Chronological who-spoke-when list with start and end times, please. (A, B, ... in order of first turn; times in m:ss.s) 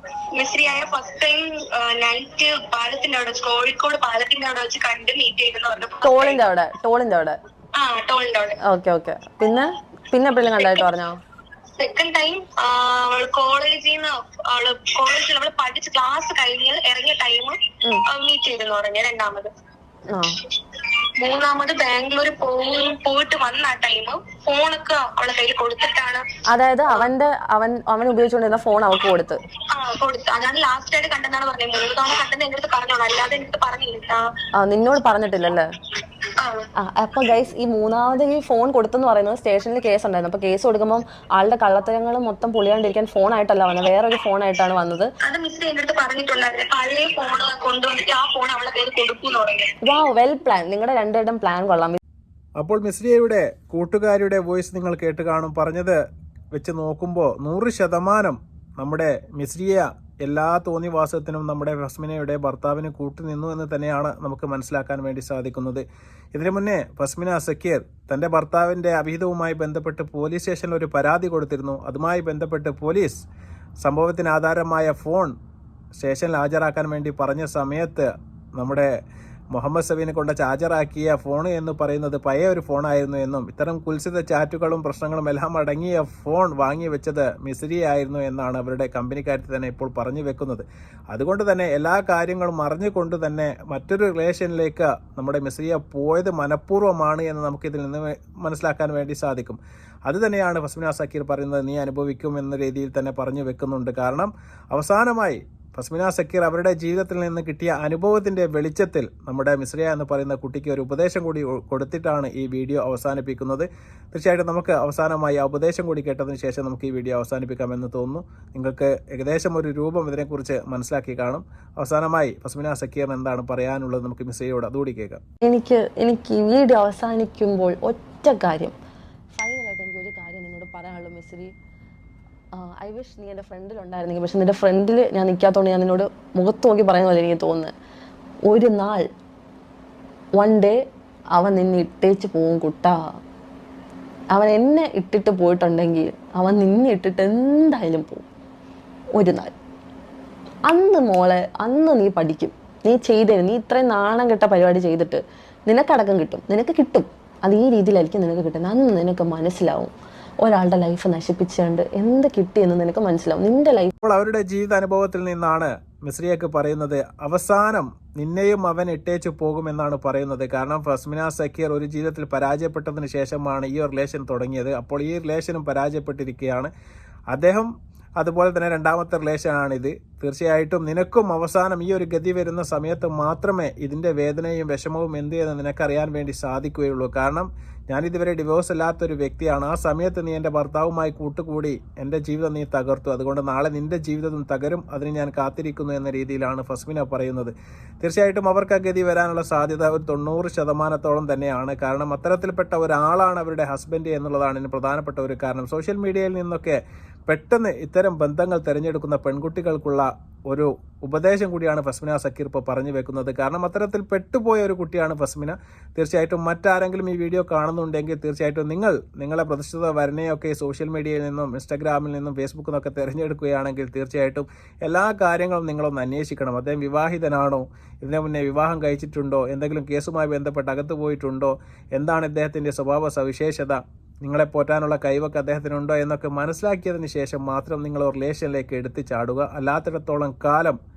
0:00.4-0:06.4 A
0:06.0-0:07.4 B
0:07.8-0:08.6 A
0:08.6-0:11.2 B
0:11.8-0:17.6 A
0:18.1-0:19.5 A
0:21.2-0:26.2 A
0:26.5-0:29.4 B
0:29.7-0:34.2 A
0:34.6-0:35.7 B
0:36.4-0:36.7 A
0:36.8-0:45.1 B
0:45.2-0:49.7 A
0:49.8-0:52.0 B
0:52.6-0:56.0 C
0:56.5-1:13.2 C
1:13.8-1:15.3 C
1:16.0-1:18.9 C
1:19.5-2:05.2 C
2:05.4-2:08.8 B
2:09.4-2:11.5 B
2:12.6-2:17.7 B
2:18.5-2:19.1 B
2:20.4-2:20.8 B
2:21.3-2:23.0 B
2:24.3-2:28.3 B
2:29.2-2:29.5 B
2:30.7-2:43.9 B
2:44.0-2:56.7 C
2:57.3-4:00.8 C